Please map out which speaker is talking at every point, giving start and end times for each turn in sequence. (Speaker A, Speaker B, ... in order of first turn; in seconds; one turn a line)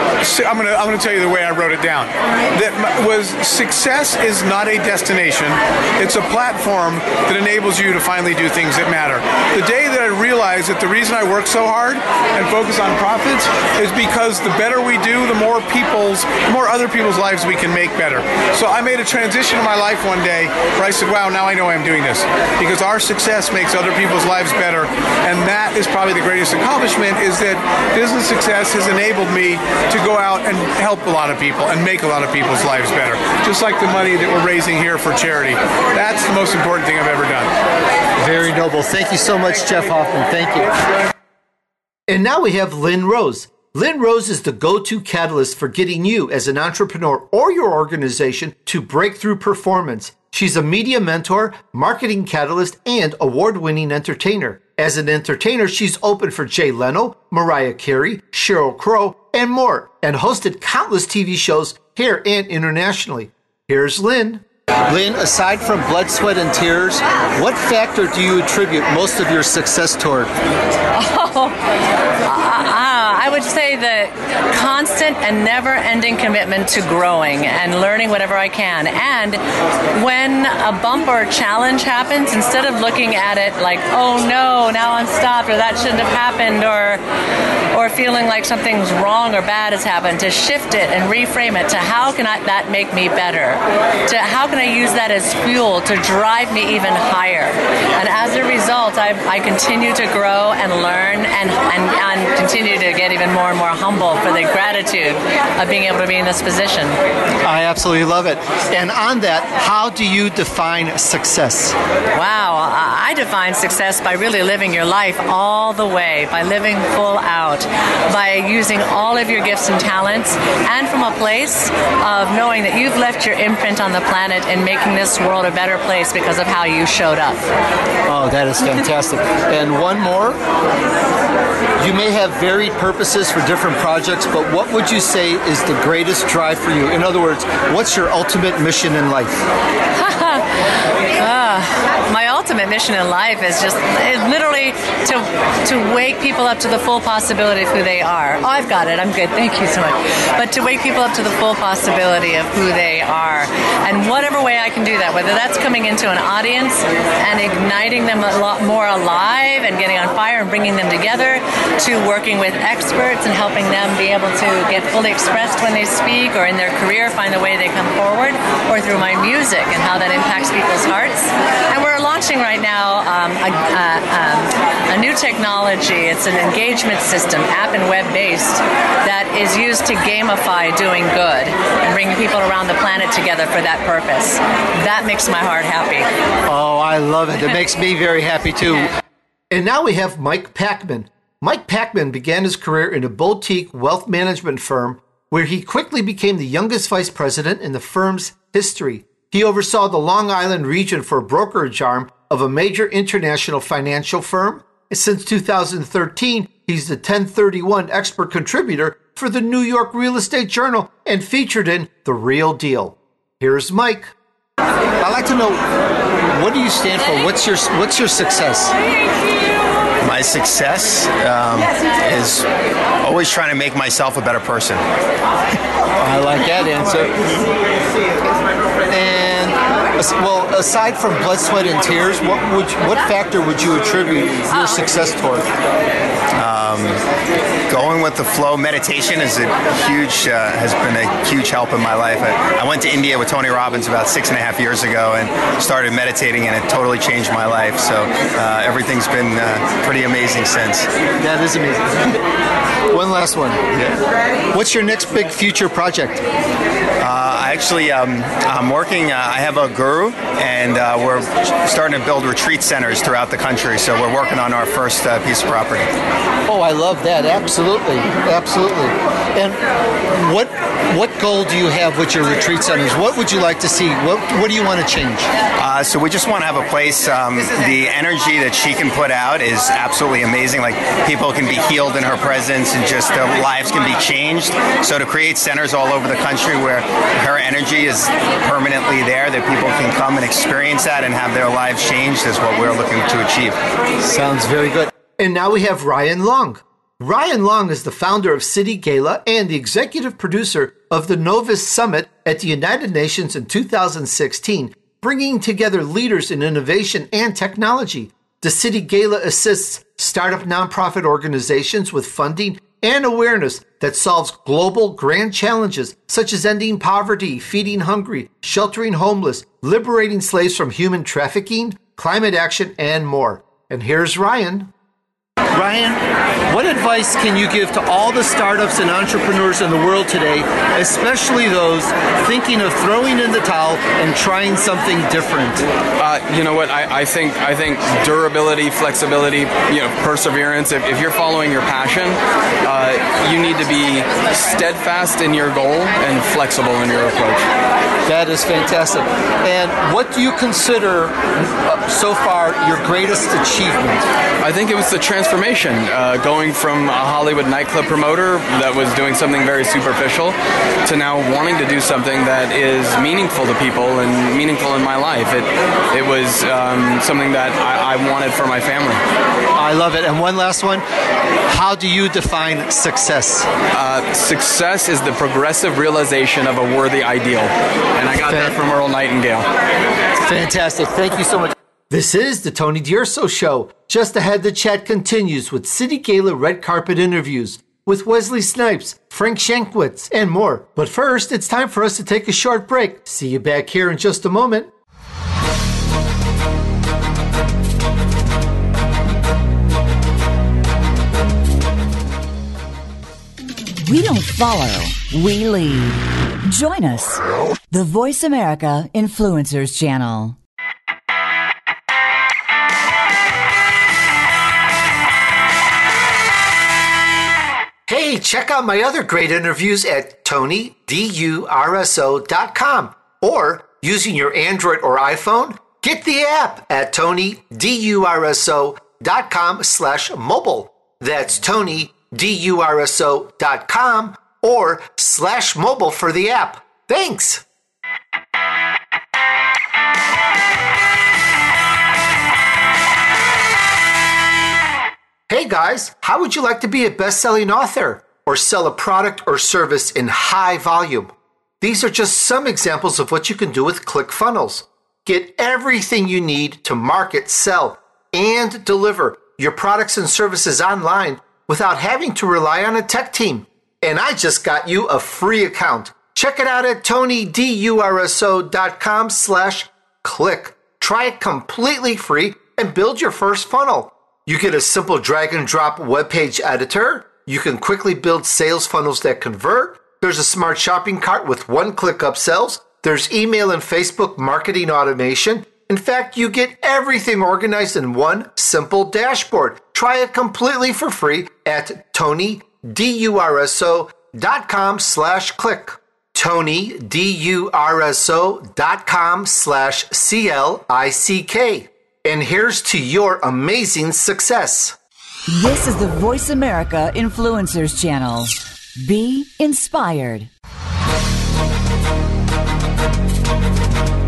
Speaker A: 0.2-37.5
Speaker B: 38.2-40.7
Speaker B: 42.1-70.3
Speaker C: 71.0-71.5
Speaker C: 72.2-79.4
Speaker C: 79.9-87.0
Speaker C: 87.7-107.0
Speaker B: 107.4-111.8
Speaker C: 112.1-127.4
Speaker B: 128.1-130.4
Speaker B: 131.8-139.4
Speaker C: 140.0-186.1
Speaker B: 186.5-188.9
Speaker B: 189.5-214.1
Speaker B: 215.0-215.6
Speaker B: 216.3-218.7
Speaker D: 220.0-222.4
Speaker D: 223.0-224.8
Speaker B: 226.0-227.2
Speaker B: 228.9-235.5
Speaker D: 236.3-237.0
Speaker D: 237.7-250.9
Speaker B: 251.2-252.2
Speaker B: 252.9-253.9
Speaker B: 254.5-256.2
Speaker D: 257.0-265.9
Speaker B: 266.4-275.3
Speaker D: 275.6-293.6
Speaker B: 294.0-324.7
Speaker B: 325.5-335.6
Speaker E: 336.0-347.4
Speaker B: 348.1-354.0
Speaker E: 354.4-369.0
Speaker B: 369.5-370.8
Speaker B: 371.5-373.5
Speaker E: 373.7-379.5
Speaker B: 378.2-378.6
Speaker B: 380.2-394.7
Speaker F: 403.8-410.4
Speaker B: 417.9-437.4
Speaker B: 445.3-504.7
Speaker F: 505.3-510.3